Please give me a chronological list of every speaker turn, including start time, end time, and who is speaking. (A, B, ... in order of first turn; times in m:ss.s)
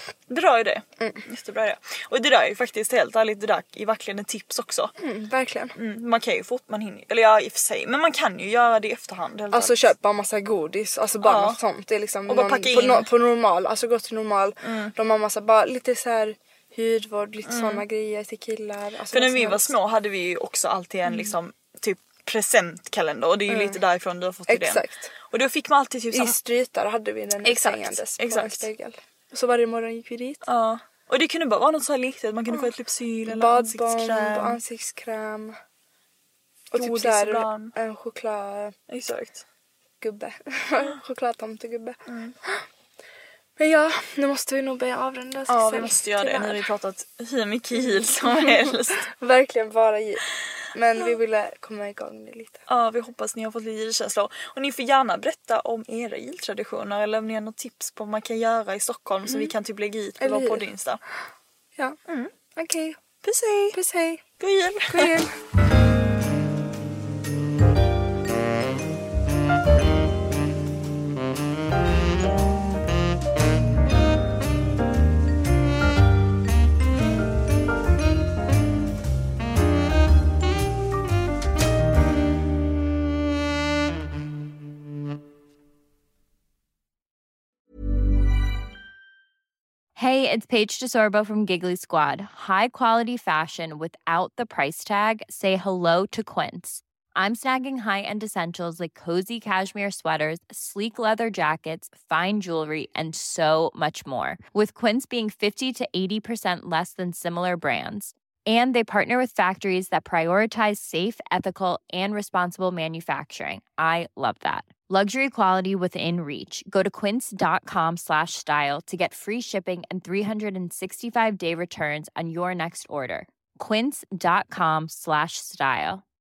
0:00.3-0:04.9 A
0:05.0-0:05.8 B
0:05.8-0:09.9 A
0:09.5-0:19.8 B
0:11.2-0:11.6 A
0:12.3-0:13.1 A
0:14.6-0:14.9 A
0:17.5-0:17.8 A
0:19.1-0:26.4 A
0:21.1-0:21.4 B
0:23.5-0:23.8 B
0:24.5-0:25.1 B
0:26.1-0:30.4 B
0:27.4-0:28.7 A
0:30.4-0:34.6 A
0:33.3-0:35.6 B
0:36.7-0:38.8 B
0:36.8-0:37.7 A
0:38.9-0:39.4 A
0:40.0-0:42.6 B
0:42.1-0:42.4 A
0:43.6-0:46.6 B
0:45.5-0:49.1 A
0:47.8-0:52.6 B
0:52.7-1:01.0 A
0:59.3-0:59.5 B
1:00.2-1:00.6 B
1:02.6-1:03.0 B
1:03.2-1:03.8 A
1:03.7-1:04.2 B
1:04.4-1:05.1 A
1:04.9-1:05.3 B
1:30.0-2:06.0 C